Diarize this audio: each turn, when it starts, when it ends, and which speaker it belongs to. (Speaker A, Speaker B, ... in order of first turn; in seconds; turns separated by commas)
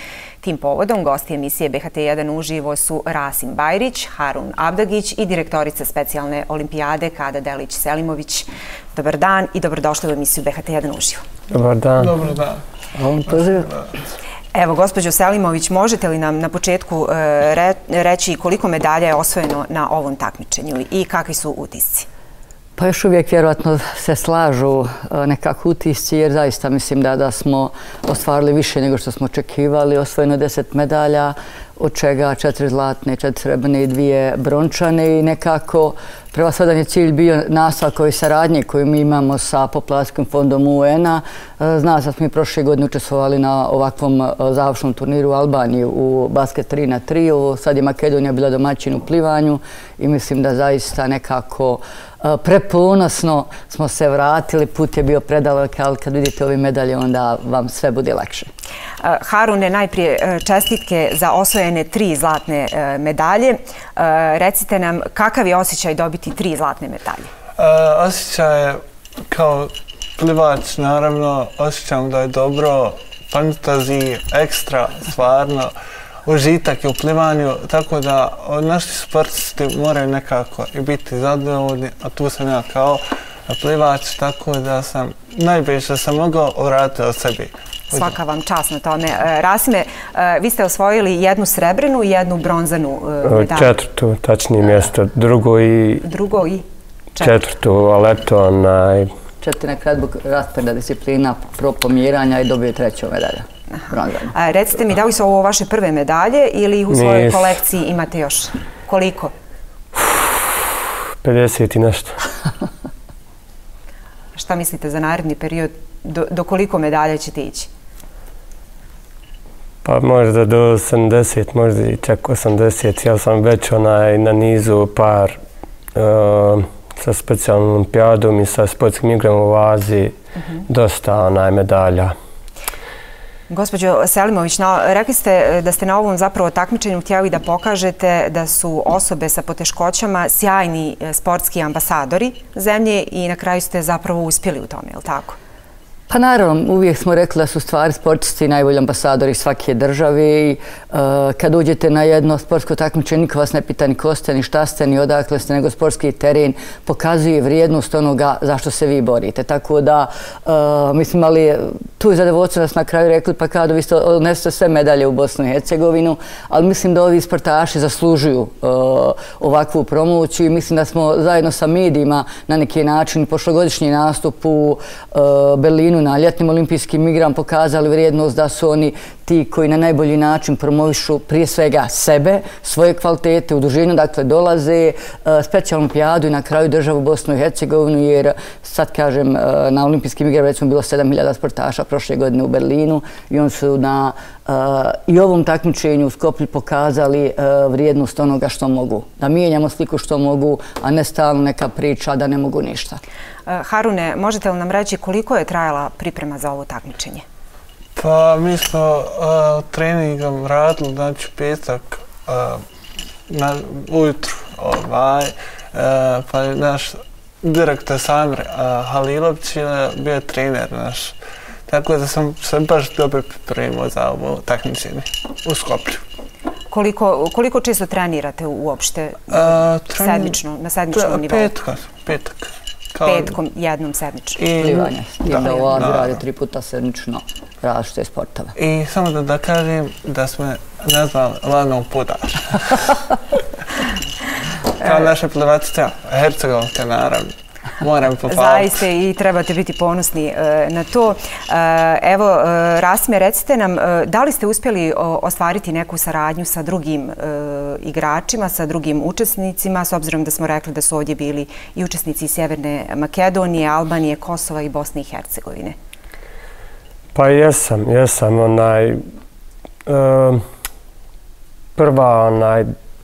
Speaker A: 0.4-11.2, Speaker B: 11.5-12.1, Speaker C: 12.0-12.6, Speaker D: 12.9-13.7, Speaker C: 13.3-14.0, Speaker A: 14.5-22.1, Speaker D: 22.8-58.5, Speaker A: 59.0-67.3, Speaker C: 67.6-68.8, Speaker C: 69.3-75.7, Speaker C: 76.2-88.1, Speaker A: 87.9-93.7, Speaker B: 93.2-96.1, Speaker A: 96.0-96.6, Speaker B: 97.2-99.1, Speaker D: 99.4-104.3, Speaker A: 103.7-109.3, Speaker B: 106.9-107.5, Speaker B: 110.0-110.3, Speaker B: 111.2-112.1, Speaker A: 114.3-117.7, Speaker B: 119.8-125.4, Speaker B: 125.9-130.1, Speaker B: 130.7-132.1, Speaker A: 133.5-145.4, Speaker D: 146.1-203.0, Speaker A: 203.5-207.2, Speaker C: 207.9-212.6, Speaker C: 213.3-221.2, Speaker C: 221.7-226.0, Speaker A: 226.7-231.5, Speaker C: 229.3-230.4, Speaker C: 230.9-233.4, Speaker A: 233.0-234.4, Speaker C: 234.4-236.2, Speaker D: 234.6-238.5, Speaker A: 235.4-235.7, Speaker C: 238.6-243.1, Speaker C: 244.8-248.8, Speaker A: 248.3-265.8, Speaker B: 267.1-269.0, Speaker B: 269.9-270.4, Speaker B: 271.8-272.7